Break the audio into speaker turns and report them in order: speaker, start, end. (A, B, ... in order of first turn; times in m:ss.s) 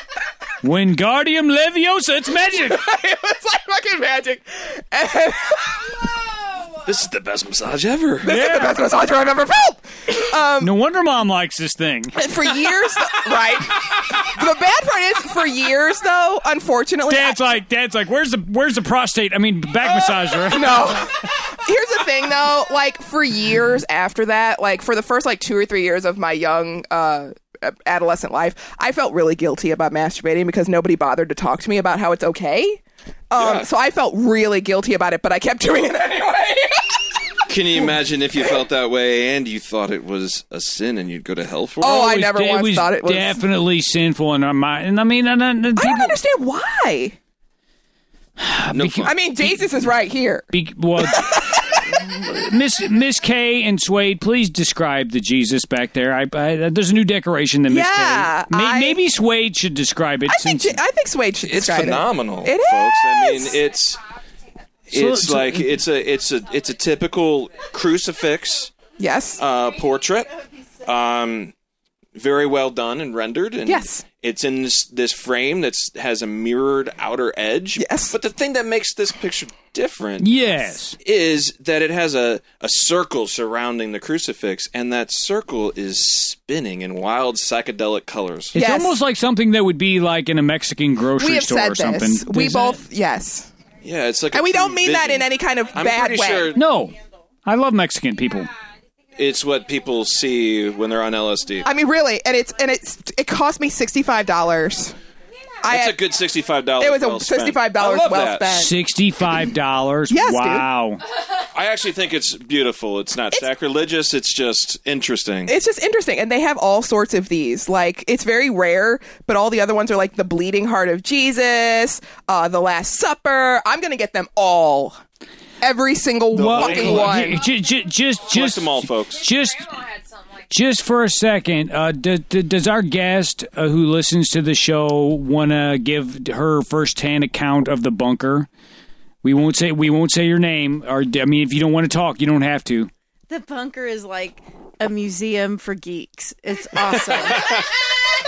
0:00.6-0:02.8 A
0:02.7-0:05.9 B
0:06.8-0:08.4 C
0:08.2-0:10.7 B
0:08.2-0:08.8 A
0:10.6-0:12.2 A
0:12.2-0:17.6 B
0:17.1-0:21.0 A
0:19.8-0:37.0 B
0:33.4-0:33.7 C
0:37.5-0:42.2 C
0:41.8-0:43.4 B
0:41.9-0:46.2 A
0:45.8-0:47.2 B
0:48.4-0:49.7 A
0:48.7-0:49.2 C
0:49.0-0:50.5 B
0:50.5-1:00.8 A
0:51.0-0:51.8 B
0:57.7-0:59.0 B
1:00.3-1:03.6 B
1:01.4-1:04.0 C
1:03.5-1:04.9 D
1:04.9-1:08.7 C
1:04.9-1:05.7 A
1:06.0-1:08.7 D
1:09.0-1:09.4 B
1:09.4-1:10.5 D
1:09.4-1:11.5 C
1:12.2-1:28.5 C
1:13.7-1:14.0 B
1:17.8-1:18.2 B
1:20.2-1:21.0 A
1:28.5-1:32.8 A
1:28.5-1:29.0 B
1:31.2-1:33.5 B
1:33.8-1:36.6 C
1:34.3-1:36.6 B
1:36.6-1:36.9 A
1:37.5-1:38.5 A
1:38.2-1:41.8 D
1:39.2-1:41.7 C
1:41.6-1:45.0 B
1:45.3-1:46.2 D
1:45.6-1:46.0 B
1:45.6-1:48.6 C
1:46.8-1:48.7 B
1:48.5-1:51.0 A
1:50.1-1:50.7 B
1:51.1-1:51.5 D
1:51.5-1:55.5 C
1:55.5-2:05.0 B
2:05.6-2:07.4 B
2:06.3-2:09.8 A
2:06.3-2:07.3 C
2:07.3-2:08.3 D
2:08.3-2:09.2 C
2:09.1-2:10.5 D
2:10.5-2:18.5 A
2:19.2-2:22.9 A
2:23.3-2:27.5 E
2:26.9-2:27.7 C